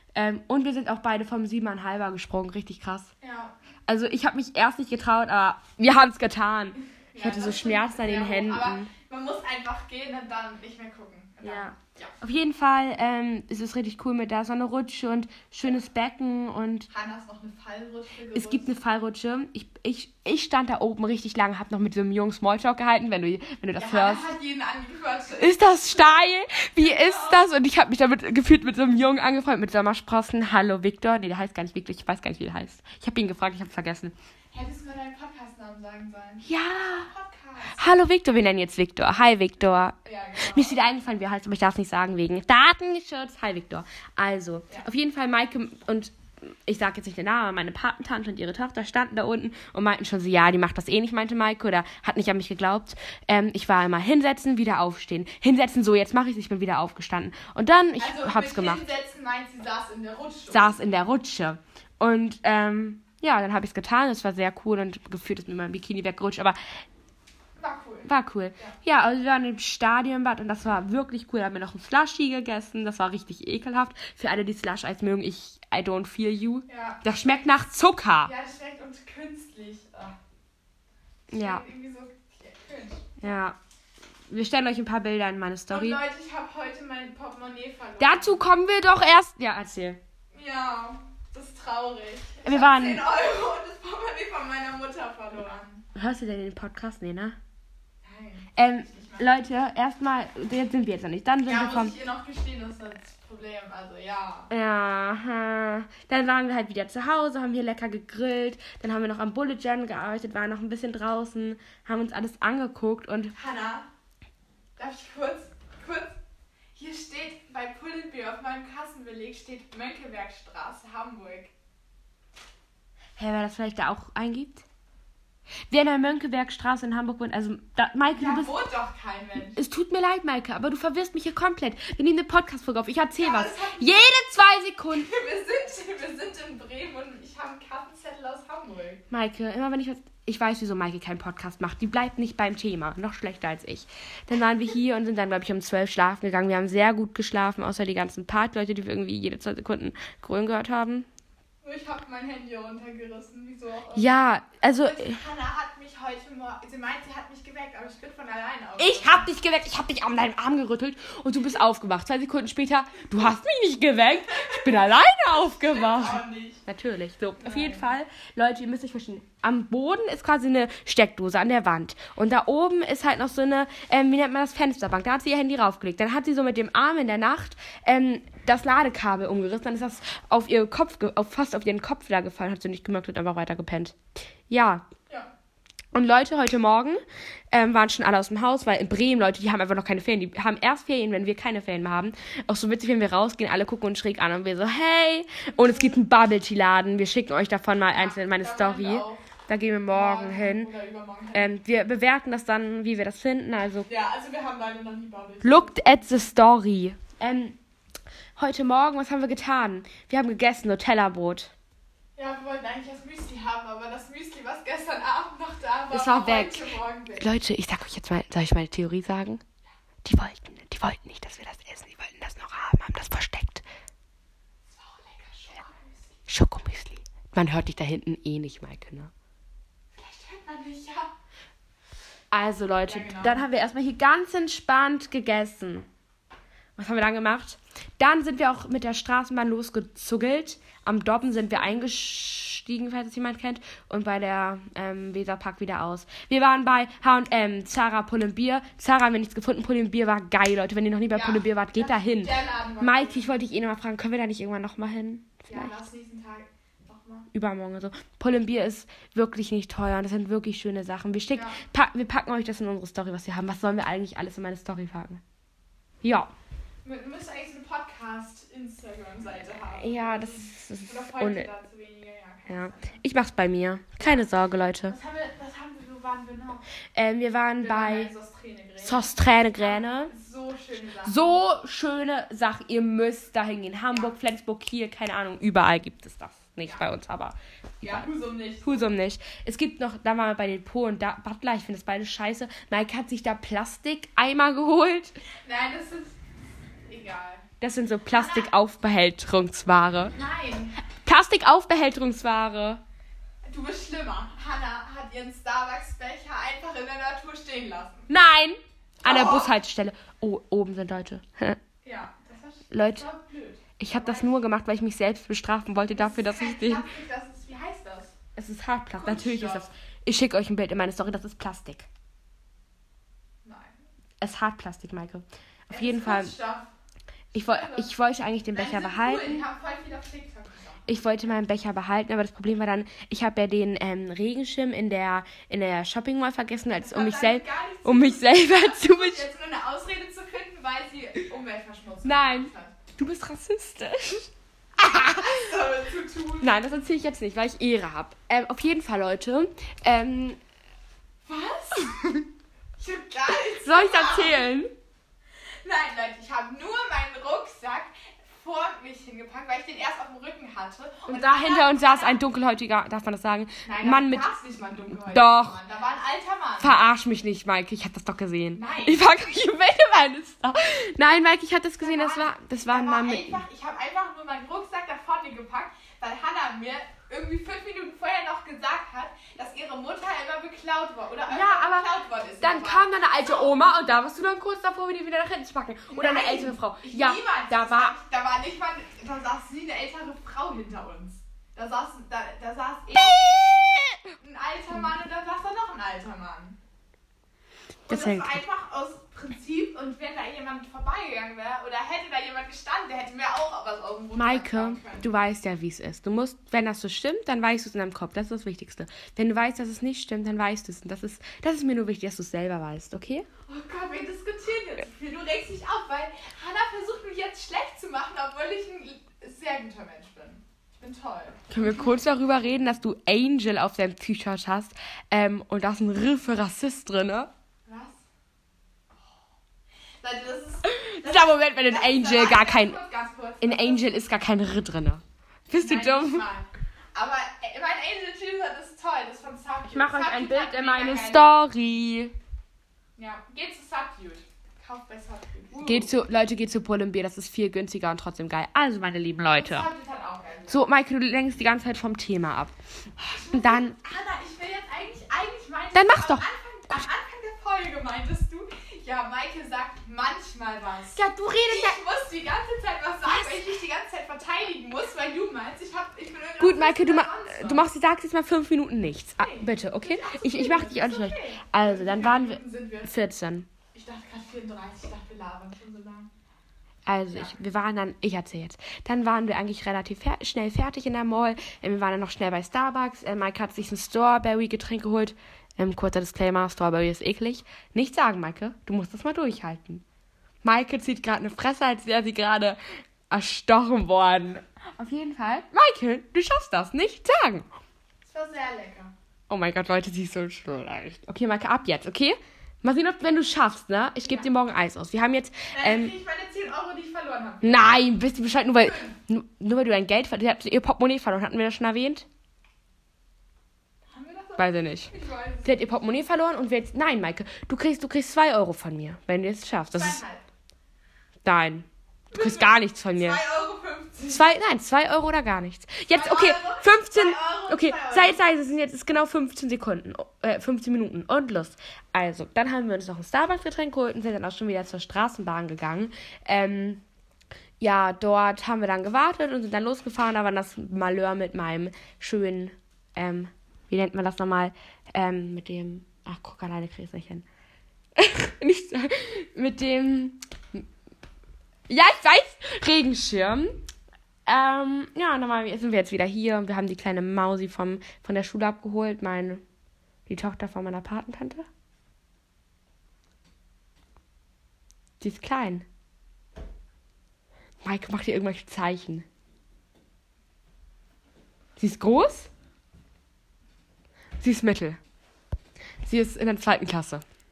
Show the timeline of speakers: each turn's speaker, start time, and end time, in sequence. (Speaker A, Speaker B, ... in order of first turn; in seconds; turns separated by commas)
Speaker A: 0.1-3.1, Speaker B: 3.2-3.5, Speaker A: 3.9-8.9, Speaker B: 7.1-12.1, Speaker A: 11.4-16.9, Speaker B: 16.9-18.7, Speaker A: 18.4-24.3, Speaker B: 23.8-27.5, Speaker A: 25.4-34.1, Speaker B: 34.5-38.0, Speaker A: 36.4-37.1, Speaker A: 37.8-58.8, Speaker B: 40.0-40.8, Speaker B: 58.0-60.8, Speaker A: 60.5-66.6, Speaker B: 67.6-68.8, Speaker A: 68.1-78.3, Speaker B: 76.7-77.4, Speaker B: 78.2-80.2, Speaker A: 81.3-81.6, Speaker B: 81.3-83.1, Speaker A: 83.2-83.6, Speaker A: 84.3-86.0, Speaker B: 85.7-88.4, Speaker A: 88.0-90.0, Speaker B: 90.3-95.8, Speaker A: 92.5-93.0, Speaker A: 95.9-97.4, Speaker B: 98.0-99.3, Speaker A: 98.6-102.0, Speaker B: 101.5-104.5, Speaker A: 104.5-113.3, Speaker B: 113.3-113.9, Speaker B: 114.8-116.2, Speaker B: 116.8-121.5, Speaker A: 123.2-124.6, Speaker A: 125.7-128.6, Speaker B: 128.2-129.6, Speaker A: 129.6-135.1, Speaker B: 133.2-134.1, Speaker B: 134.9-139.0, Speaker A: 139.1-151.1, Speaker B: 151.6-154.2, Speaker A: 153.9-155.2, Speaker B: 154.7-159.3, Speaker A: 158.8-184.0, Speaker B: 164.3-164.7, Speaker B: 165.3-166.6, Speaker B: 167.4-167.9, Speaker A: 184.5-184.9, Speaker A: 185.9-200.7, Speaker B: 195.5-196.0, Speaker B: 197.9-199.3, Speaker B: 199.9-201.6, Speaker A: 201.3-203.9, Speaker B: 203.9-206.1, Speaker A: 205.4-207.6, Speaker A: 208.4-211.5, Speaker B: 212.2-217.3, Speaker A: 215.9-219.4, Speaker A: 220.0-223.7, Speaker B: 224.7-226.2, Speaker A: 226.3-229.1, Speaker B: 229.9-231.1, Speaker A: 232.3-235.9, Speaker B: 232.9-233.4, Speaker A: 236.8-255.7, Speaker B: 251.1-253.2, Speaker B: 255.5-257.3, Speaker A: 257.3-265.2, Speaker B: 261.3-261.6, Speaker A: 266.0-266.3, Speaker B: 266.8-273.0, Speaker A: 269.8-271.5, Speaker A: 272.5-275.0, Speaker B: 274.9-276.6, Speaker A: 276.9-278.1, Speaker B: 277.6-281.4, Speaker A: 278.8-280.1, Speaker A: 281.0-288.1, Speaker B: 287.8-288.9, Speaker A: 288.6-295.2, Speaker B: 295.4-296.2, Speaker B: 296.9-297.4, Speaker A: 297.6-300.1, Speaker B: 298.1-298.5, Speaker B: 300.1-300.8, Speaker A: 301.1-302.8, Speaker B: 303.4-308.1, Speaker A: 308.1-311.6, Speaker B: 309.0-309.5, Speaker B: 311.8-314.4, Speaker A: 312.7-313.1, Speaker A: 313.8-316.9, Speaker B: 315.9-318.1, Speaker A: 318.4-321.9, Speaker B: 319.0-319.7, Speaker B: 323.4-323.8, Speaker A: 324.2-326.3, Speaker B: 325.7-326.7, Speaker B: 327.3-327.9, Speaker A: 327.3-329.4, Speaker B: 328.5-331.0, Speaker A: 330.9-339.3, Speaker B: 336.8-342.8, Speaker A: 342.0-345.5, Speaker B: 344.9-346.6, Speaker A: 346.4-350.4, Speaker B: 351.2-352.2, Speaker B: 352.8-354.5, Speaker A: 353.6-354.7, Speaker B: 355.6-362.2, Speaker A: 361.1-364.3, Speaker B: 363.6-366.8, Speaker A: 364.9-365.6, Speaker A: 366.6-373.4, Speaker B: 368.5-369.1, Speaker B: 371.8-383.6, Speaker A: 381.3-381.9, Speaker A: 382.4-388.0, Speaker B: 385.9-396.6, Speaker A: 392.9-394.1, Speaker A: 397.9-398.4, Speaker B: 397.9-405.1, Speaker A: 404.2-413.3, Speaker B: 413.5-421.9, Speaker A: 421.5-427.3, Speaker B: 427.7-428.0, Speaker B: 430.0-434.0, Speaker A: 430.6-432.8, Speaker A: 433.4-436.3, Speaker B: 435.5-441.3, Speaker A: 439.7-442.1, Speaker B: 443.0-445.9, Speaker A: 445.6-449.7, Speaker B: 449.3-450.6, Speaker A: 450.5-452.6, Speaker B: 453.0-467.7, Speaker A: 453.3-453.8, Speaker A: 455.7-456.9, Speaker A: 460.9-461.8, Speaker A: 463.1-463.4, Speaker A: 466.4-473.5, Speaker B: 469.2-472.9, Speaker B: 473.7-476.1, Speaker A: 476.9-489.8, Speaker B: 477.1-477.4, Speaker A: 490.4-497.5, Speaker B: 498.0-498.9, Speaker A: 499.3-505.9, Speaker B: 505.5-507.8, Speaker A: 507.4-512.1, Speaker B: 508.6-508.9, Speaker B: 513.9-515.6, Speaker A: 514.4-514.9, Speaker A: 515.4-520.0, Speaker B: 519.7-520.2, Speaker A: 521.2-523.2, Speaker B: 522.1-524.3, Speaker A: 524.0-536.8, Speaker B: 525.9-528.2, Speaker A: 537.6-547.3, Speaker A: 548.0-550.7, Speaker A: 551.7-553.6, Speaker A: 554.3-559.4, Speaker A: 560.1-561.5, Speaker A: 565.0-565.7, Speaker A: 567.6-569.1, Speaker A: 571.6-572.3, Speaker A: 574.2-574.8, Speaker A: 575.8-577.0